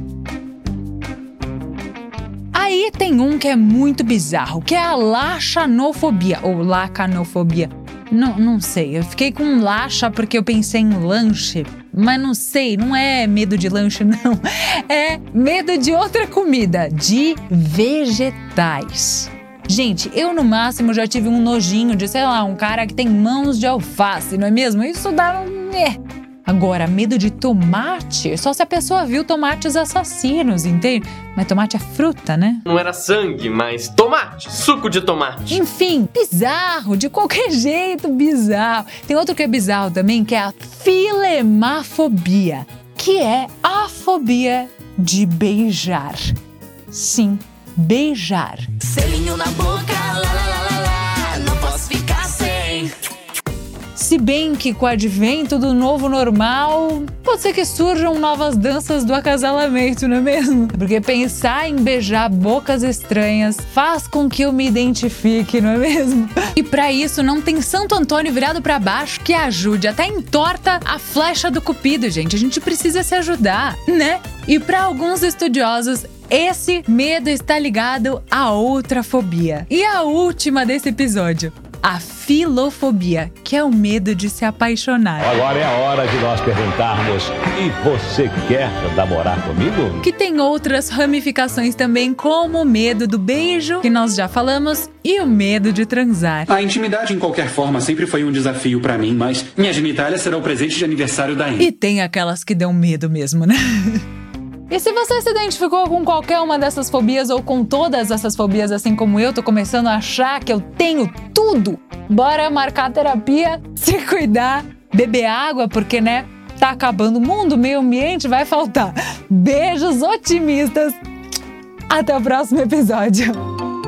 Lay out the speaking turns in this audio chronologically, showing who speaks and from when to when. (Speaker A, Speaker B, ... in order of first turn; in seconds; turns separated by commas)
Speaker A: 2.5-32.6, Speaker B: 32.7-35.6, Speaker A: 35.5-46.3, Speaker A: 46.9-48.9, Speaker C: 49.0-52.8, Speaker A: 53.9-85.4, Speaker D: 85.2-90.0, Speaker A: 90.0-96.5, Speaker E: 96.5-101.7, Speaker A: 101.6-104.0, Speaker A: 104.7-121.0, Speaker A: 121.9-123.4